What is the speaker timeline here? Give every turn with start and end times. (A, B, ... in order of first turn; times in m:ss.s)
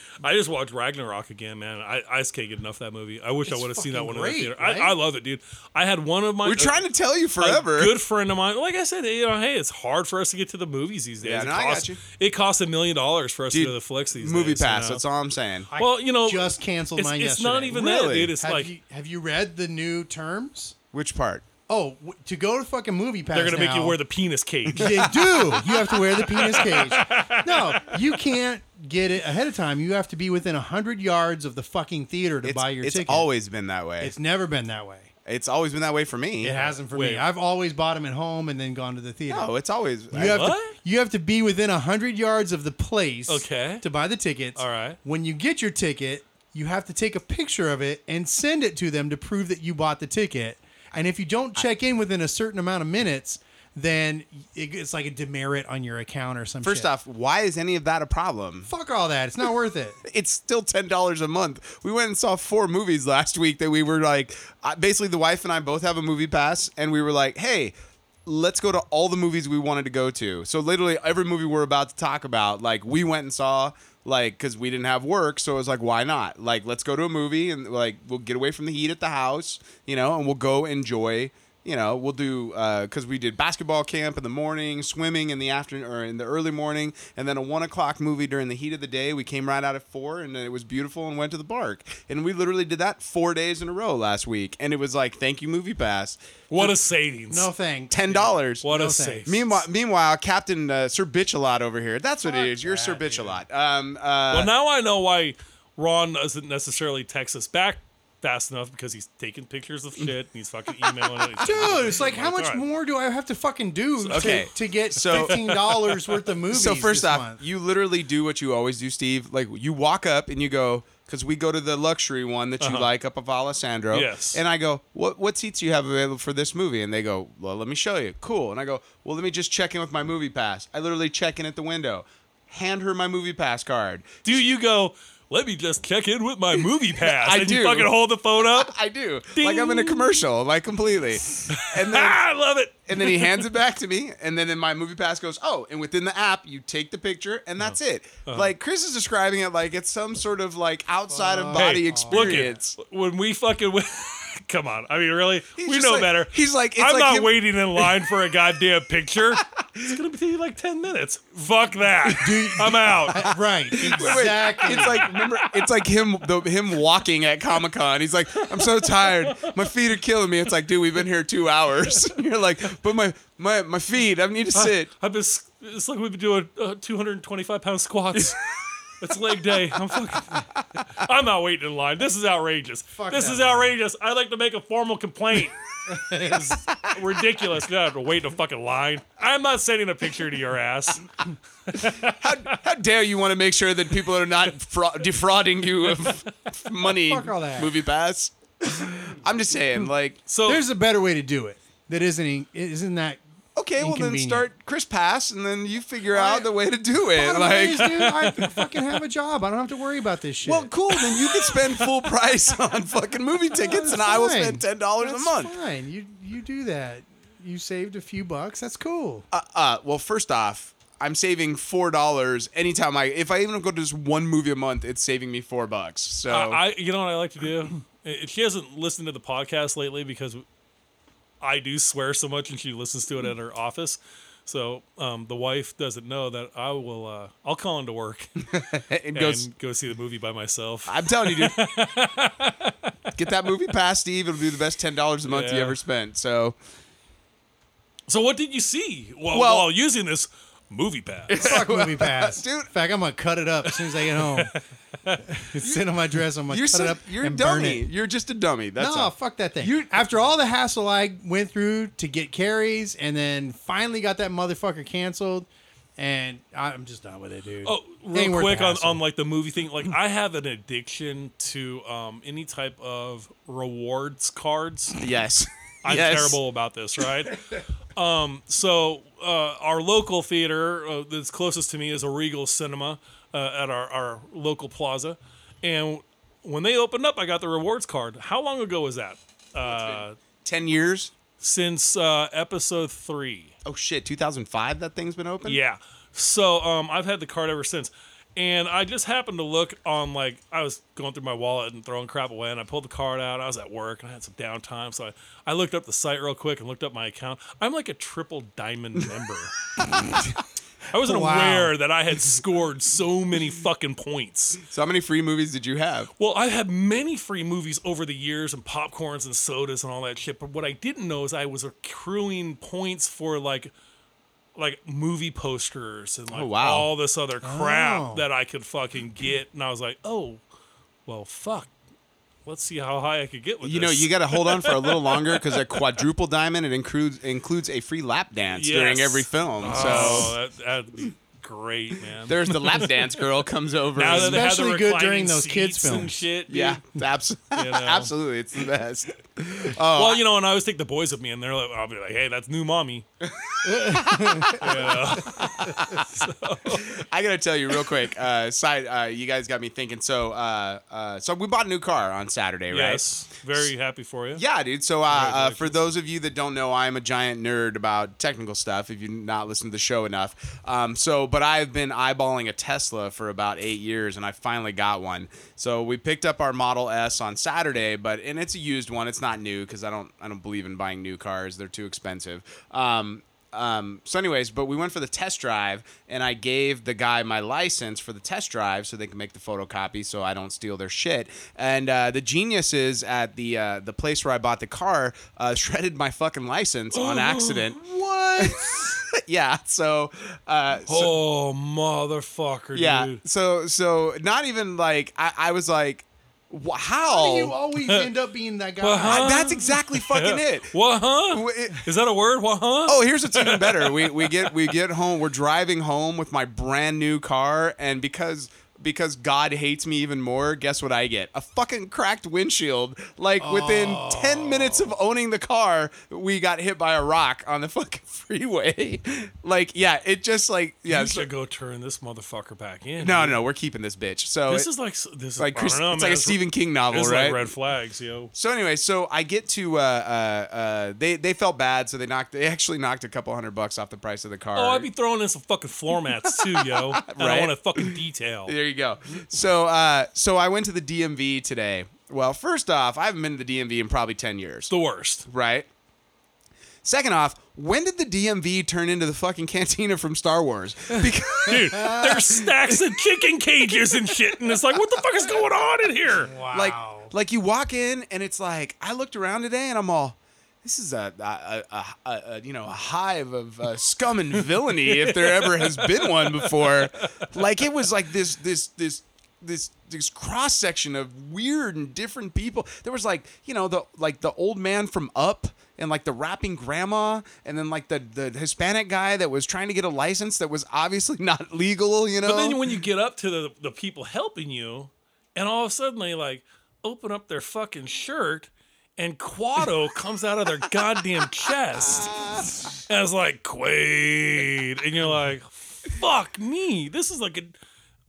0:00.2-0:06.8 A
0:03.5-0:04.9 B
0:06.4-0:08.0 C
0:07.4-0:15.0 A
0:11.2-0:12.0 C
0:13.5-0:15.7 C
0:15.7-0:17.8 B
0:15.8-0:18.7 A
0:17.7-0:18.3 C
0:18.4-0:20.7 B
0:20.9-0:21.4 C
0:21.7-0:24.0 B
0:23.3-0:28.1 A
0:24.7-0:33.3 B
0:24.7-0:25.2 C
0:32.4-0:34.1 C
0:34.0-0:35.1 B
0:35.2-0:36.5 C
0:36.4-0:39.5 B
0:36.5-0:37.2 A
0:39.3-0:40.4 C
0:40.1-0:56.9 B
0:40.1-0:40.8 A
0:43.3-0:43.8 A
0:44.6-0:45.0 A
0:56.6-0:58.7 C
0:58.6-1:00.0 B
1:00.0-1:36.7 C
1:36.5-1:37.5 A
1:37.3-1:39.2 B
1:37.9-1:38.7 C
1:38.6-1:39.6 A
1:39.2-1:44.5 C
1:42.2-1:43.4 B
1:44.3-1:52.6 A
1:50.9-1:51.2 C
1:51.4-1:57.4 B
1:54.0-1:56.2 A
1:54.1-1:55.6 C
1:56.5-2:14.4 C
2:02.6-2:02.9 A
2:03.9-2:04.4 A
2:14.2-2:18.8 A
2:17.0-2:22.2 C
2:19.3-2:20.2 A
2:21.4-2:23.5 A
2:22.9-2:32.8 C
2:27.6-2:28.5 A
2:31.1-2:32.4 B
2:31.5-2:45.7 A
2:35.6-2:37.9 C
2:39.6-2:40.0 C
2:42.2-2:45.1 B
2:43.8-2:54.9 C
2:48.4-2:49.6 A
2:54.5-2:58.5 A
2:59.0-3:11.1 A
3:02.9-3:03.7 B
3:05.9-3:06.6 B
3:11.7-3:12.6 A
3:11.8-3:20.2 C
3:17.0-3:17.7 B
3:20.3-3:20.6 A
3:20.4-3:23.2 B
3:23.6-3:28.1 C
3:23.8-3:24.5 B
3:26.1-3:26.5 B
3:27.1-3:30.7 B
3:27.8-3:28.6 A
3:30.4-3:35.5 C
3:33.5-3:39.2 B
3:39.3-3:46.6 C
3:46.3-3:50.4 A
3:51.4-3:58.5 A
3:58.5-3:59.5 C
3:59.1-4:02.9 A
4:00.8-4:01.6 C
4:03.2-4:06.6 C
4:05.3-4:05.8 A
4:08.1-4:11.4 A
4:09.3-4:09.7 C
4:11.3-4:12.7 C
4:11.3-4:14.5 B
4:13.7-4:15.2 A
4:15.2-4:17.8 B
4:15.6-4:15.9 C
4:16.5-4:20.1 C
4:18.8-4:29.0 B
4:27.6-4:35.0 A
4:35.0-4:36.4 C
4:35.8-4:37.4 A
4:37.9-4:50.2 A
4:49.6-4:51.1 C
4:51.4-4:53.5 A
4:53.6-4:55.6 C
4:55.4-5:09.6 A
5:10.9-5:14.6 A
5:11.0-5:11.7 B
5:14.6-5:16.1 C
5:16.2-5:23.7 A
5:24.6-5:30.4 A
5:26.3-5:26.9 C
5:27.4-5:28.2 B
5:31.0-5:31.7 A
5:32.4-5:35.8 A
5:33.6-5:40.4 C
5:38.4-5:43.1 A
5:39.7-5:40.0 B
5:42.3-5:44.5 C
5:43.9-5:46.8 A
5:44.1-5:46.2 B
5:46.5-5:50.2 C
5:47.5-5:48.1 A
5:49.9-5:53.0 A
5:53.2-5:56.1 C
5:53.6-5:54.6 B
5:54.6-5:57.0 A
5:56.8-6:03.0 C
6:02.7-6:04.4 A
6:04.3-6:37.8 C
6:05.1-6:05.8 A
6:36.9-6:37.7 A
6:37.8-6:39.0 B
6:38.4-6:41.1 C
6:40.9-6:43.2 A
6:42.7-6:47.5 C
6:47.1-6:49.4 B
6:47.8-6:48.1 A
6:48.8-6:54.7 A
6:49.0-6:50.7 C
6:51.3-6:51.9 C
6:52.8-7:11.3 C
7:03.4-7:04.9 B
7:10.8-7:13.4 A
7:13.0-7:14.7 C
7:14.5-7:18.3 A
7:15.4-7:17.5 C
7:18.3-7:24.9 C
7:24.5-7:28.5 A
7:26.3-7:34.7 C
7:34.7-7:35.2 A
7:35.3-7:35.7 C
7:36.8-7:42.8 C
7:41.4-7:46.3 A
7:41.7-7:42.2 B
7:46.2-7:47.1 B
7:46.5-8:12.6 C
7:54.8-7:57.3 A
8:12.2-8:22.2 A
8:21.8-8:22.7 C
8:22.8-8:27.5 A